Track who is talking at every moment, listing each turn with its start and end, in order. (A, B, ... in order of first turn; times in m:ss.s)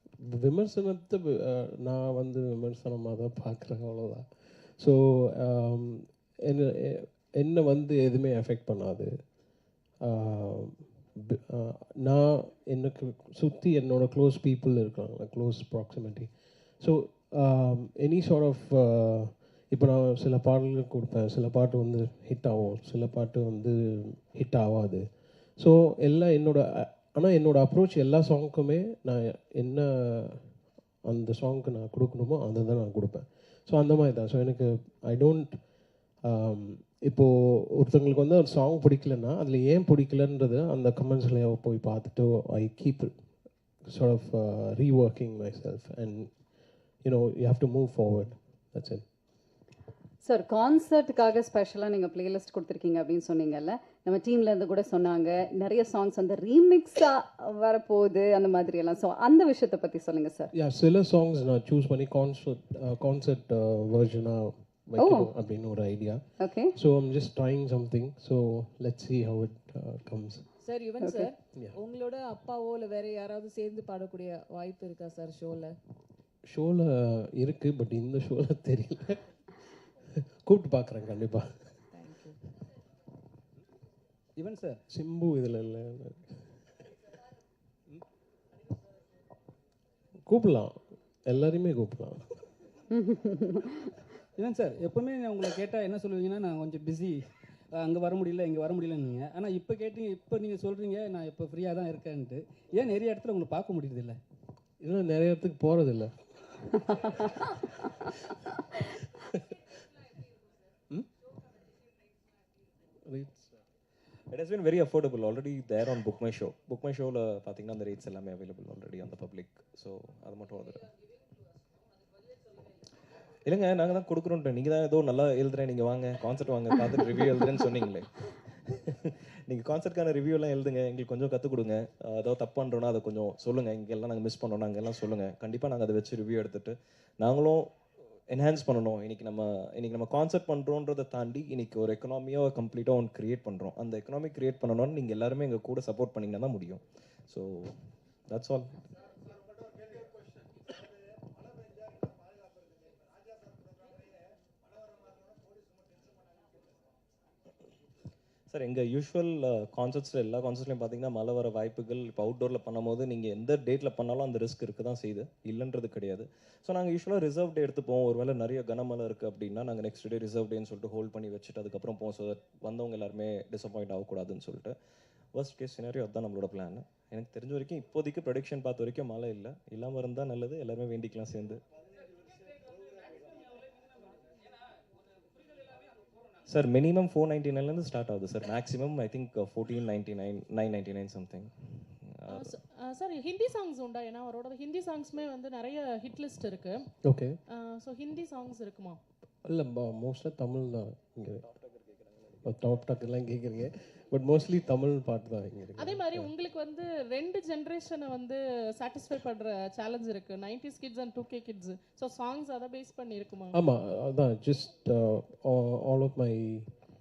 0:00.2-0:09.1 A
0:10.0-0:35.6 A
0:36.2-0:43.1 A
0:43.9-0:49.0 A
0:50.2-1:00.5 B
1:00.5-1:10.5 A
1:05.0-1:05.3 B
1:06.4-1:06.8 B
1:10.6-1:15.8 C
1:16.5-1:21.8 A
1:21.9-1:22.4 C
1:24.4-1:24.8 D
1:24.9-1:26.7 A
1:30.3-1:32.5 A
1:32.9-1:33.9 B
1:34.4-1:37.2 D
1:37.7-1:44.2 D
1:44.8-1:48.3 A
1:49.1-1:49.6 A
1:53.1-1:53.5 A
1:54.3-2:00.9 E
2:03.4-2:17.7 E
2:18.3-2:27.7 E
2:28.3-2:28.7 E
2:38.5-2:54.8 E
2:55.4-3:01.6 E
3:06.5-3:12.5 E
3:12.3-3:19.0 F
3:17.0-3:17.4 A
3:19.4-3:21.5 A
3:22.4-3:26.3 A
3:25.8-3:33.6 F
3:33.5-3:36.7 A